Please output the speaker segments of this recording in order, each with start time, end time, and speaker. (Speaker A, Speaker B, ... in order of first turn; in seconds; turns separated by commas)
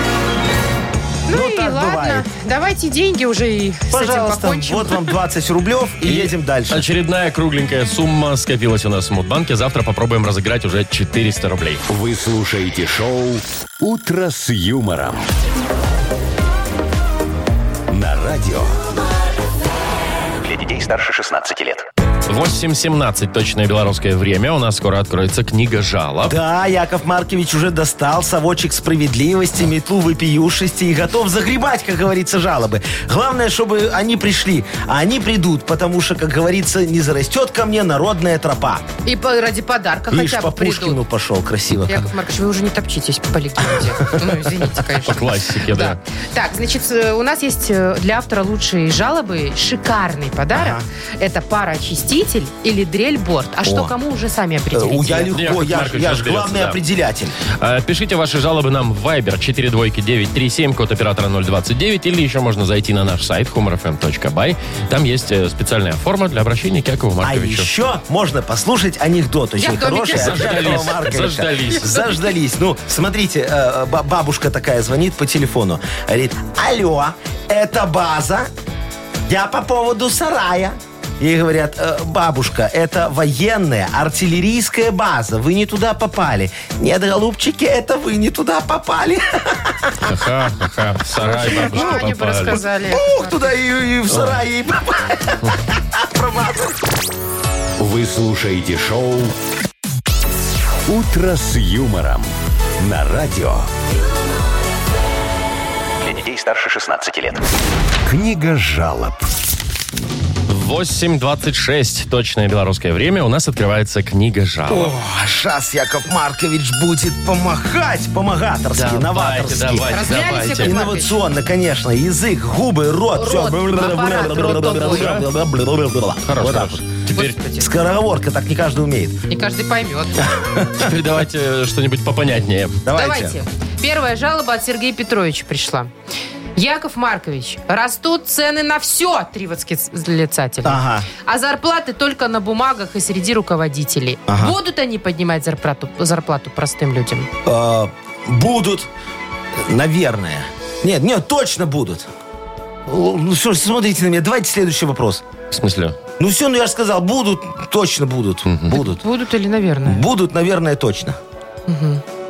Speaker A: 1.3-5.0, Speaker B: 1.3-2.3, Speaker B: 3.9-6.9, Speaker C: 6.0-11.8, Speaker D: 11.9-15.3, Speaker D: 17.9-18.8, Speaker E: 20.4-21.9, Speaker C: 22.3-26.4, Speaker B: 26.3-38.9, Speaker A: 39.0-41.0, Speaker B: 40.1-42.1, Speaker A: 41.9-55.3, Speaker B: 43.7-44.4, Speaker C: 45.0-46.0, Speaker B: 50.5-50.9, Speaker B: 53.6-53.9, Speaker B: 54.7-57.4, Speaker C: 55.3-56.8, Speaker C: 57.6-67.7, Speaker B: 67.2-78.5, Speaker A: 69.6-70.8, Speaker C: 70.1-72.2, Speaker B: 79.3-90.1, Speaker C: 90.0-92.6, Speaker A: 91.2-93.5, Speaker B: 91.3-96.8, Speaker C: 94.1-94.4, Speaker D: 97.8-99.3, Speaker D: 100.9-103.7, Speaker E: 106.0-107.4, Speaker D: 108.1-109.2, Speaker C: 110.5-114.9, Speaker B: 114.7-126.8, Speaker C: 118.8-120.8, Speaker A: 119.9-121.2, Speaker A: 123.2-125.2, Speaker C: 124.7-125.2, Speaker C: 126.2-127.4, Speaker A: 127.1-127.7, Speaker B: 127.6-129.2, Speaker A: 129.3-130.2, Speaker B: 130.2-130.9, Speaker C: 130.8-132.8, Speaker B: 132.8-133.4, Speaker A: 132.9-135.9, Speaker A: 136.6-147.3, Speaker B: 140.6-141.1, Speaker B: 144.3-144.6, Speaker B: 147.4-148.9, Speaker B: 149.6-152.1, Speaker B: 152.9-155.2, Speaker C: 155.5-156.0, Speaker B: 156.2-159.0, Speaker C: 158.5-158.8, Speaker A: 158.7-160.1, Speaker B: 159.9-161.2, Speaker A: 161.7-162.0